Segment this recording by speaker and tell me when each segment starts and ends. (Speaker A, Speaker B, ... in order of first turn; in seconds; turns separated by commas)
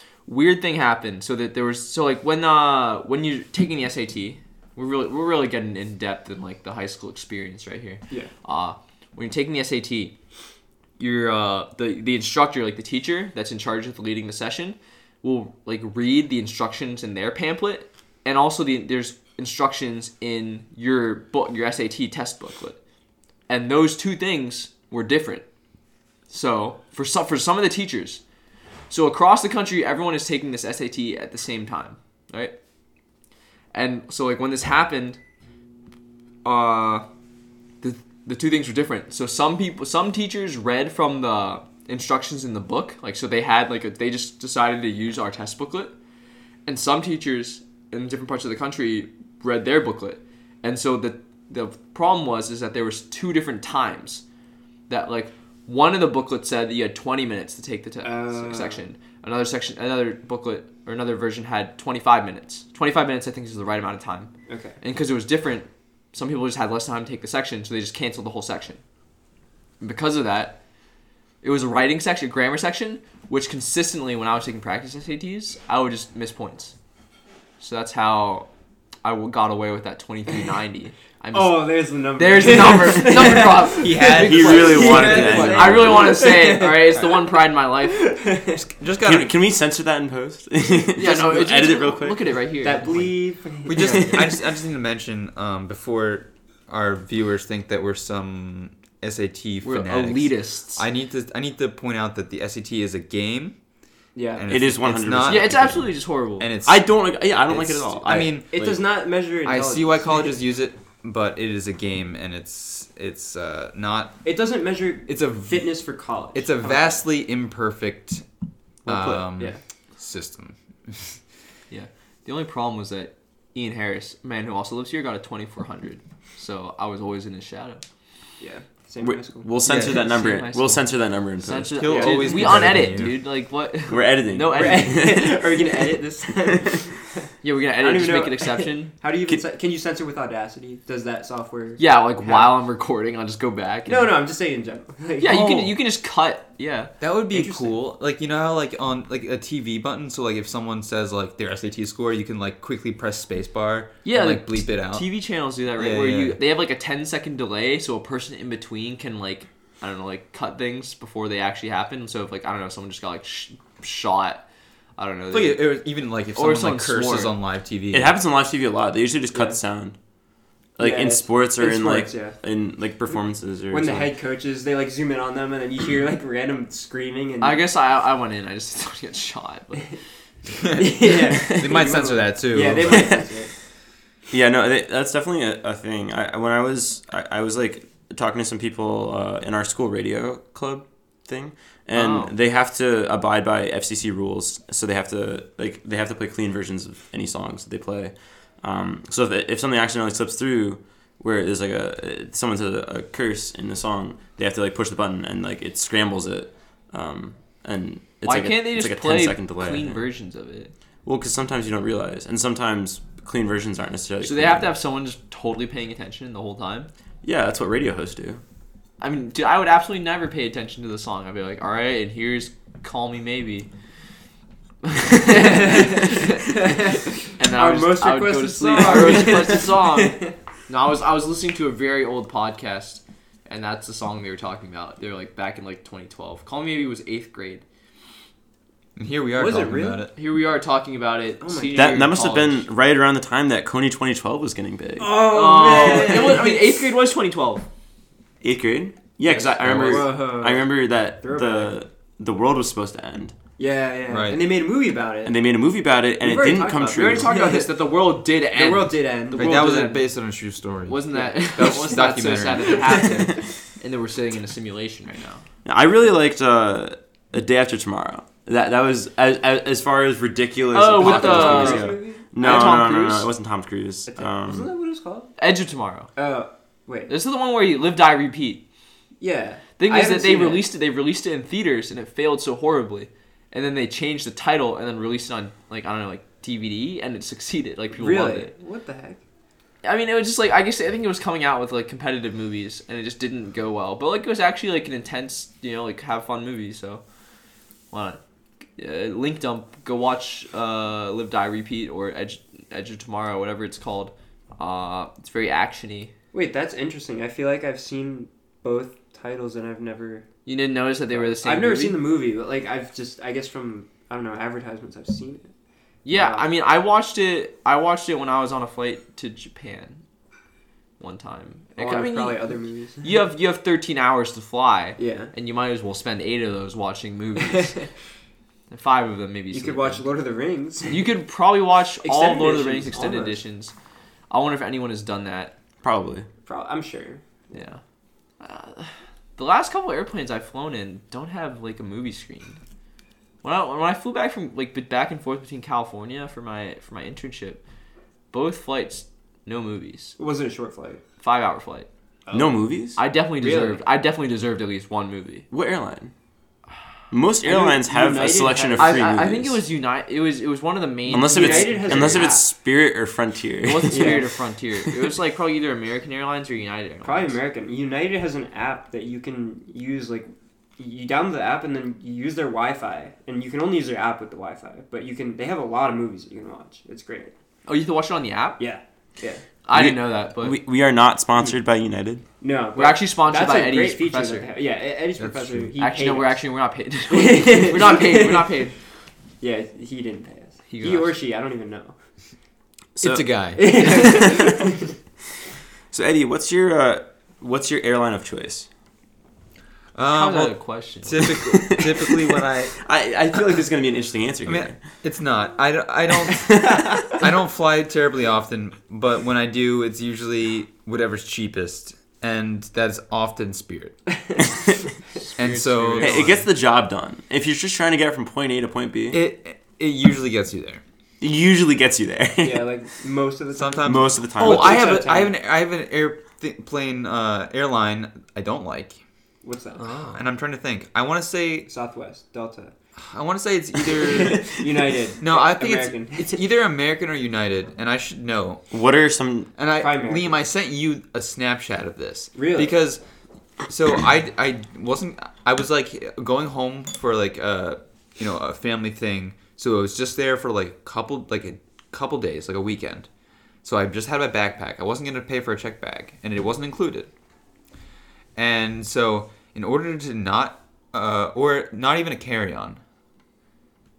Speaker A: 0.2-10.1, Speaker A: 11.0-22.8, Speaker A: 23.5-25.4, Speaker A: 26.3-28.2, Speaker A: 28.9-32.5, Speaker A: 33.7-35.2, Speaker A: 36.4-37.0, Speaker A: 37.8-45.9, Speaker A: 46.6-54.2, Speaker A: 54.9-68.8, Speaker B: 58.0-58.8, Speaker B: 64.5-64.8, Speaker A: 69.8-70.6, Speaker A: 71.4-76.7, Speaker A: 77.6-78.5, Speaker A: 79.0-88.1, Speaker B: 81.3-88.6, Speaker C: 83.9-86.2, Speaker D: 88.5-89.3, Speaker C: 89.0-92.3, Speaker A: 91.0-93.1, Speaker B: 92.6-94.3, Speaker D: 93.7-103.5, Speaker C: 93.8-94.2, Speaker A: 99.6-100.8, Speaker B: 104.1-104.5, Speaker D: 104.3-106.9, Speaker C: 104.5-105.8, Speaker A: 105.2-106.5, Speaker C: 106.6-108.8, Speaker D: 107.5-108.6, Speaker B: 108.2-110.3, Speaker D: 109.4-114.2, Speaker B: 114.2-117.0, Speaker D: 115.1-115.7, Speaker D: 116.3-118.2, Speaker B: 118.8-119.6, Speaker D: 118.8-121.2, Speaker A: 121.7-127.8, Speaker B: 128.4-129.5, Speaker C: 129.0-132.8, Speaker D: 129.6-130.0, Speaker A: 129.7-130.9, Speaker A: 131.4-135.1, Speaker D: 131.7-133.2, Speaker C: 133.9-135.8, Speaker B: 134.5-142.6, Speaker A: 137.4-138.9, Speaker A: 141.8-144.2, Speaker B: 143.9-145.7, Speaker A: 145.2-146.9, Speaker D: 147.0-155.0, Speaker B: 147.3-147.7, Speaker A: 154.0-164.4, Speaker D: 155.7-156.4, Speaker A: 165.0-165.7, Speaker D: 165.3-168.1, Speaker A: 166.3-167.3, Speaker C: 167.9-169.9, Speaker B: 169.3-169.6, Speaker C: 170.8-174.1, Speaker B: 170.8-172.4, Speaker B: 173.7-177.6, Speaker A: 177.4-180.0, Speaker D: 180.5-183.1, Speaker B: 180.7-183.5, Speaker C: 181.3-181.7, Speaker C: 182.7-183.3, Speaker C: 184.3-210.0, Speaker A: 191.9-192.3, Speaker A: 208.2-210.7, Speaker C: 211.0-214.7, Speaker A: 214.2-216.9, Speaker C: 217.2-218.4, Speaker A: 219.0-223.7, Speaker A: 224.8-226.7, Speaker B: 225.3-230.3, Speaker A: 227.3-237.6, Speaker D: 238.9-240.1, Speaker B: 239.3-240.0, Speaker A: 240.1-242.7, Speaker B: 241.4-241.9, Speaker C: 241.7-246.0, Speaker B: 245.0-246.7, Speaker A: 245.2-247.7, Speaker C: 248.4-253.3, Speaker D: 249.6-250.0, Speaker B: 249.8-250.7, Speaker B: 251.2-251.8, Speaker B: 253.6-255.3, Speaker D: 254.1-254.4, Speaker C: 255.2-257.3, Speaker B: 256.2-257.7, Speaker A: 256.9-260.0, Speaker B: 258.5-259.7, Speaker D: 259.3-263.0, Speaker A: 260.9-265.4, Speaker B: 261.1-261.9, Speaker B: 262.6-263.4, Speaker C: 265.6-274.7, Speaker A: 270.7-273.3, Speaker B: 270.9-272.9, Speaker B: 274.1-275.3, Speaker A: 275.4-276.1, Speaker B: 276.1-277.1, Speaker A: 277.1-278.6, Speaker B: 279.2-280.6, Speaker A: 279.8-288.5, Speaker B: 287.9-289.2, Speaker A: 289.8-297.0, Speaker A: 297.9-298.2, Speaker A: 298.8-306.1, Speaker B: 306.3-310.2, Speaker A: 310.4-312.0, Speaker B: 311.1-315.5, Speaker A: 316.0-320.0, Speaker B: 316.1-316.5, Speaker A: 321.0-322.5, Speaker B: 321.8-323.1, Speaker A: 323.0-327.8, Speaker B: 325.0-325.3, Speaker B: 327.4-327.9, Speaker A: 328.7-330.0, Speaker B: 329.5-331.0, Speaker A: 330.9-333.7, Speaker B: 332.0-333.4, Speaker A: 334.3-335.5, Speaker C: 335.8-336.3, Speaker B: 336.4-337.2, Speaker A: 337.5-337.8, Speaker A: 338.4-342.6, Speaker A: 343.4-347.6, Speaker A: 348.3-350.2, Speaker B: 350.2-351.0, Speaker A: 351.2-351.9, Speaker B: 352.3-352.6, Speaker C: 352.3-353.0, Speaker A: 352.9-355.4, Speaker B: 353.4-353.8, Speaker C: 355.5-356.1, Speaker C: 357.1-359.6, Speaker B: 357.4-359.1, Speaker A: 358.8-362.4, Speaker C: 361.1-364.2, Speaker B: 361.1-362.4, Speaker A: 363.6-367.4, Speaker B: 363.9-364.3, Speaker B: 367.0-377.3, Speaker A: 377.7-378.6, Speaker B: 378.6-379.4, Speaker A: 379.6-380.6, Speaker C: 379.7-382.2, Speaker B: 382.4-386.4, Speaker A: 382.8-384.5, Speaker D: 385.2-385.7, Speaker A: 385.8-388.8, Speaker B: 387.1-388.6, Speaker B: 389.4-391.9, Speaker A: 390.7-391.1, Speaker C: 392.9-394.6, Speaker D: 393.0-393.9, Speaker B: 393.6-394.9, Speaker C: 395.9-398.7, Speaker D: 399.9-402.8, Speaker A: 400.1-401.4, Speaker C: 401.2-404.8, Speaker D: 404.4-413.9, Speaker A: 415.2-416.4, Speaker D: 415.4-416.4, Speaker C: 416.0-419.2, Speaker D: 419.1-420.8, Speaker C: 421.2-422.7, Speaker B: 422.4-425.3, Speaker D: 423.5-429.0, Speaker C: 423.8-424.8, Speaker B: 429.4-430.0, Speaker A: 429.8-430.2, Speaker D: 430.1-431.7, Speaker B: 431.7-432.7, Speaker D: 433.0-434.6, Speaker B: 434.0-436.4, Speaker D: 435.2-438.6, Speaker C: 438.7-439.5, Speaker D: 439.6-443.0, Speaker B: 439.8-440.4, Speaker B: 442.3-442.7, Speaker D: 443.7-453.1, Speaker D: 453.6-457.1, Speaker D: 458.4-462.8